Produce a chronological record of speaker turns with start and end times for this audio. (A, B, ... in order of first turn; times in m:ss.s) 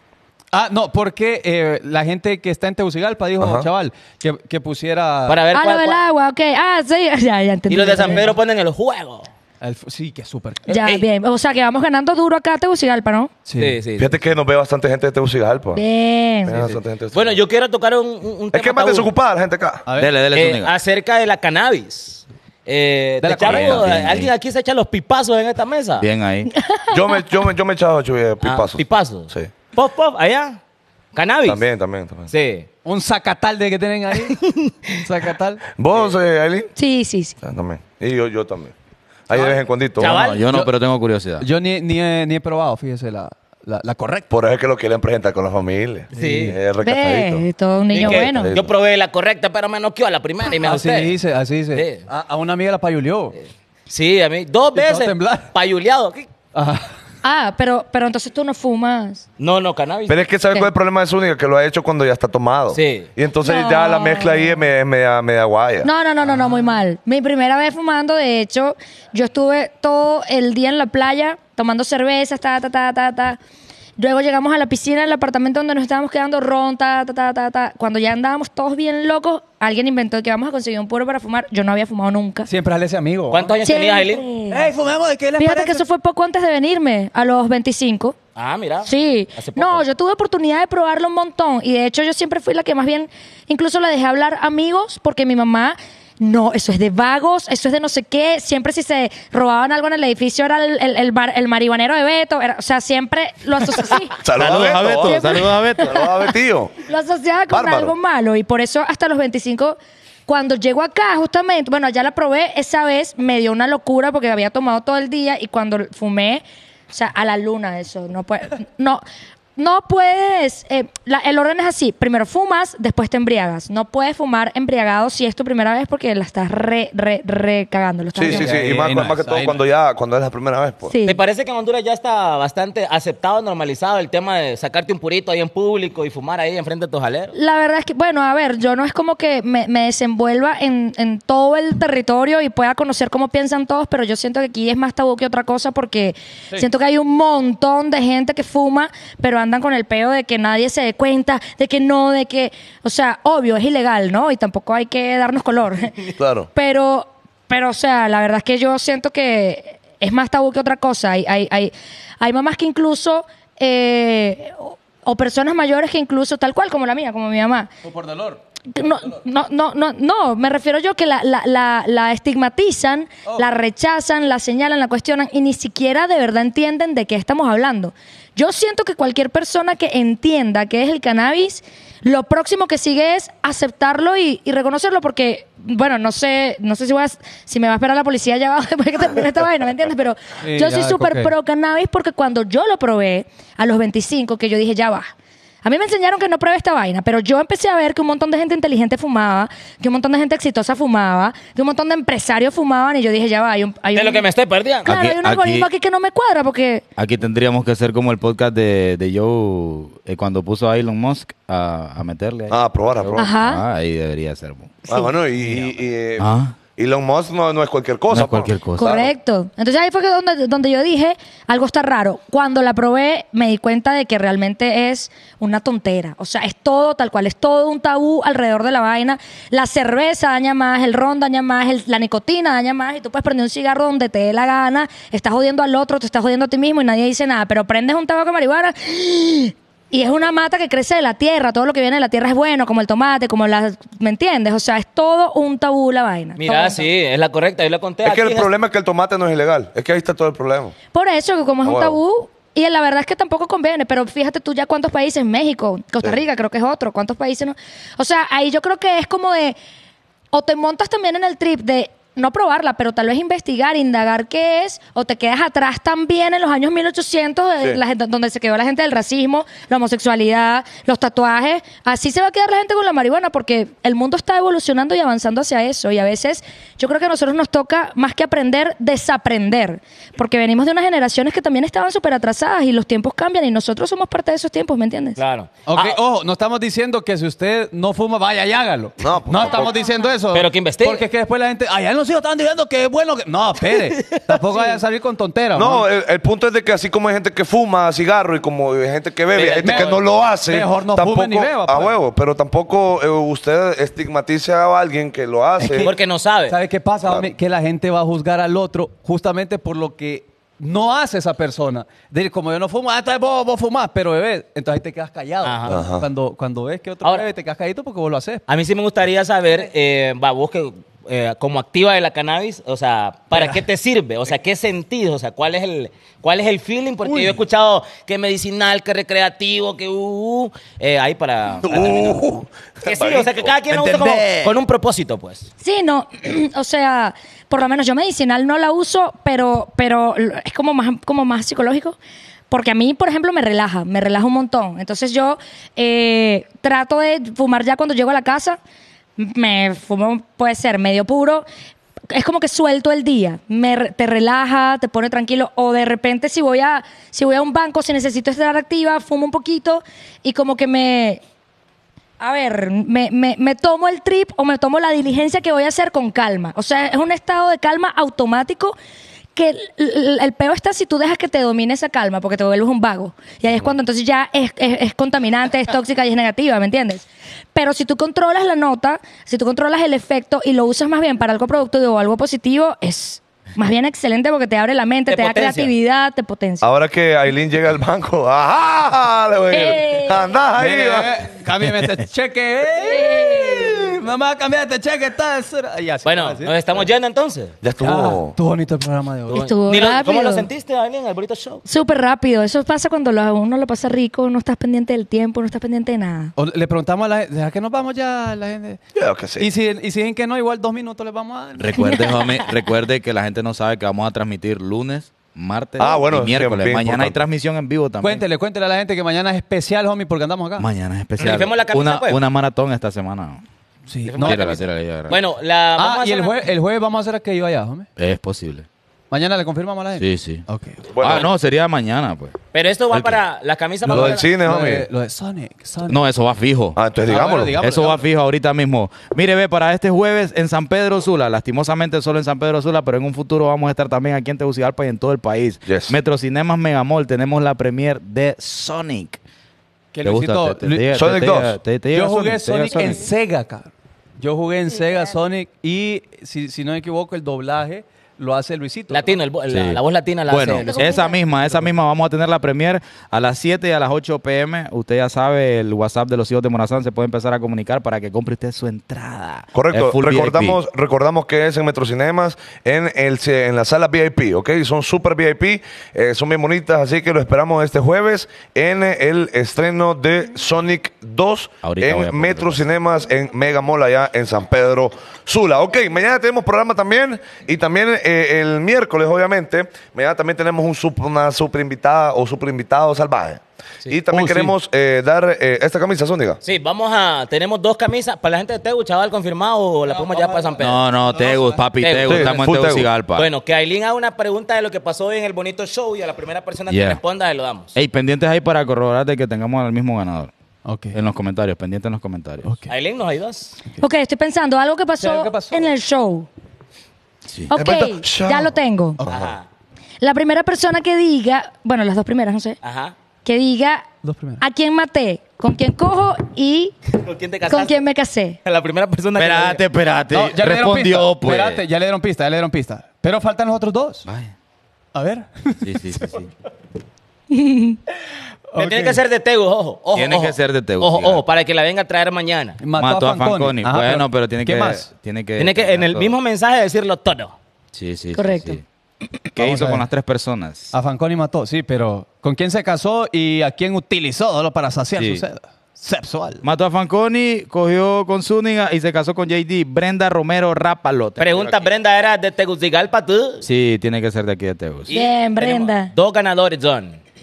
0:00.5-0:05.4 A
0:03.4-0:03.7 B
0:05.3-0:06.0 C
0:05.5-0:08.3 D
0:07.7-0:09.3 C
0:08.0-0:08.3 A
0:09.6-0:10.6 A
0:10.7-0:11.0 C
0:10.7-0:13.3 D
0:13.5-0:13.8 A
0:13.6-0:14.1 C
0:14.0-0:15.8 B
0:15.7-0:16.6 D
0:16.4-0:17.4 B
0:17.1-0:19.1 C
0:18.5-0:19.8 B
0:19.9-0:20.2 A
0:20.0-0:20.7 E
0:20.3-0:26.1 C
0:23.2-0:23.9 A
0:23.4-0:24.3 E
0:26.0-0:26.5 E
0:26.6-0:26.9 D
0:26.9-0:29.5 B
0:28.4-0:30.6 C
0:31.1-0:31.6 C
0:31.5-0:32.3 B
0:32.3-0:32.7 C
0:32.8-0:34.4 A
0:34.3-0:35.0 C
0:35.0-0:35.6 A
0:35.8-0:36.7 B
0:36.8-0:37.4 D
0:37.4-0:38.7 B
0:39.3-0:40.2 B
0:39.3-0:40.7 C
0:40.0-0:41.5 E
0:41.4-0:44.3 A
0:44.3-0:48.7 B
0:46.1-0:46.6 A
0:46.2-0:46.6 C
0:46.8-0:48.5 D
0:47.9-0:51.2 C
0:50.6-0:53.4 A
0:51.7-0:52.1 C
0:53.9-0:56.3 C
0:54.7-0:55.5 A
0:56.5-0:57.0 A
0:57.2-0:59.2 D
0:59.4-1:00.2 C
1:00.1-1:05.9 B
1:02.7-1:03.1 C
1:03.4-1:04.6 D
1:05.8-1:13.4 D
1:14.0-1:22.5 D
1:22.5-1:23.5 A
1:23.3-1:24.2 C
1:23.6-1:24.7 D
1:24.5-1:25.8 A
1:25.4-1:28.2 D
1:28.4-1:29.8 C
1:28.8-1:44.2 D
1:44.2-1:45.2 B
1:44.3-1:46.0 E
1:45.0-1:46.1 D
1:45.8-1:46.7 B
1:46.9-1:59.0 D
1:47.5-1:47.9 B
1:59.6-2:08.6 D
2:08.2-2:10.9 B
2:08.2-2:09.6 A
2:10.9-2:11.2 D
2:11.0-2:17.4 C
2:17.3-2:36.0 D
2:36.2-2:36.5 B
2:36.5-2:47.7 D
2:47.8-2:48.4 A
2:48.7-3:15.1 D
3:10.4-3:11.3 A
3:15.6-3:24.3 D
3:24.0-3:24.9 C
3:24.8-3:26.8 D
3:24.8-3:25.7 E
3:27.0-3:34.9 E
3:32.5-3:33.3 B
3:33.2-3:33.6 D
3:34.9-3:36.3 B
3:35.5-3:36.6 E
3:36.8-3:39.1 B
3:38.1-3:39.0 E
3:38.8-4:06.9 D
4:06.4-4:08.5 C
4:08.0-4:10.7 B
4:10.9-4:19.6 D
4:11.6-4:12.0 B
4:20.3-4:45.2 D
4:45.2-4:46.0 C
4:45.7-4:55.8 A
4:49.0-4:49.8 B
4:50.3-4:51.0 C
4:54.0-4:54.6 C
4:55.6-5:05.9 B
4:59.3-5:00.0 C
4:59.6-5:00.0 A
5:00.5-5:01.9 A
5:05.7-5:06.6 C
5:06.5-5:18.4 A
5:15.4-5:15.8 C
5:15.7-5:16.1 B
5:18.5-5:32.2 C
5:23.3-5:23.6 A
5:27.0-5:27.4 A
5:31.6-5:33.5 B
5:32.8-5:35.5 C
5:33.7-5:34.1 E
5:33.8-5:34.5 A
5:35.6-5:42.0 D
5:42.5-5:48.6 D
5:49.2-5:51.5 D
5:52.1-6:01.2 D
6:02.2-6:08.8 D
6:09.4-6:26.6 D
6:25.1-6:25.7 C
6:26.6-6:31.2 B
6:29.5-6:30.2 D
6:30.6-6:36.6 A
6:32.8-6:33.8 D
6:36.0-6:37.6 C
6:37.6-6:38.4 B
6:37.8-6:39.5 A
6:39.3-6:40.5 D
6:39.3-6:41.6 C
6:41.7-6:46.3 D
6:46.4-6:48.8 A
6:49.0-6:49.5 B
6:49.4-6:52.1 A
6:51.6-6:58.2 E
6:55.8-6:57.2 B
6:58.0-7:00.7 A
7:00.6-7:03.4 E
7:01.2-7:02.2 C
7:03.9-7:04.6 A
7:04.0-7:06.4 C
7:04.2-7:05.2 E
7:05.8-7:07.9 A
7:08.0-7:08.7 E
7:09.1-7:10.9 A
7:10.0-7:10.4 E
7:10.9-7:11.3 B
7:11.0-7:12.4 E
7:12.5-7:14.3 C
7:12.9-7:13.2 E
7:13.9-7:16.0 A
7:13.9-7:14.9 B
7:15.9-7:16.8 E
7:16.8-7:17.6 B
7:17.0-7:18.1 A
7:17.6-7:29.2 E
7:25.7-7:26.0 B
7:29.9-7:31.0 A
7:30.0-7:33.1 E
7:30.9-7:31.6 B
7:31.9-7:39.2 A
7:38.9-7:40.7 C
7:39.5-7:50.6 E
7:40.6-7:41.2 D
7:49.5-8:16.4 B
8:01.6-8:02.6 E
8:14.1-8:14.5 A
8:16.4-8:20.8 C
8:19.9-8:21.7 A
8:20.6-8:23.3 E
8:21.8-8:22.5 C
8:22.1-8:22.9 B
8:23.2-8:27.8 C
8:26.7-8:27.0 E
8:27.7-8:30.3 E
8:30.6-8:31.0 A
8:30.9-8:32.5 E
8:32.4-8:32.7 A
8:32.7-8:33.6 C
8:33.8-8:36.3 D
8:35.0-8:35.7 A
8:37.5-8:39.0 D
8:37.6-8:39.3 B
8:39.1-8:39.4 C
8:40.0-8:42.6 D
8:42.6-8:42.9 C
8:43.2-8:43.9 D
8:44.0-8:44.4 A
8:44.4-8:46.8 D
8:46.9-8:47.8 C
8:47.5-8:48.4 D
8:48.4-8:49.6 C
8:49.2-8:51.6 E
8:50.1-8:54.1 A
8:54.1-8:54.3 E
8:54.9-8:55.8 A
8:55.6-8:56.3 E
8:57.3-8:57.8 D
8:58.5-8:59.0 A
8:58.6-9:02.6 C
9:00.0-9:01.2 E
9:02.6-9:04.9 A
9:02.7-9:06.2 E
9:05.4-9:07.4 C
9:07.8-9:08.6 E
9:08.1-9:08.6 D
9:09.4-9:09.9 A
9:09.4-9:10.7 E
9:10.7-9:16.4 A
9:15.0-9:15.2 E
9:16.4-9:21.7 E
9:21.2-9:23.4 C
9:23.4-9:24.9 E
9:24.9-9:27.0 C
9:24.9-9:25.9 D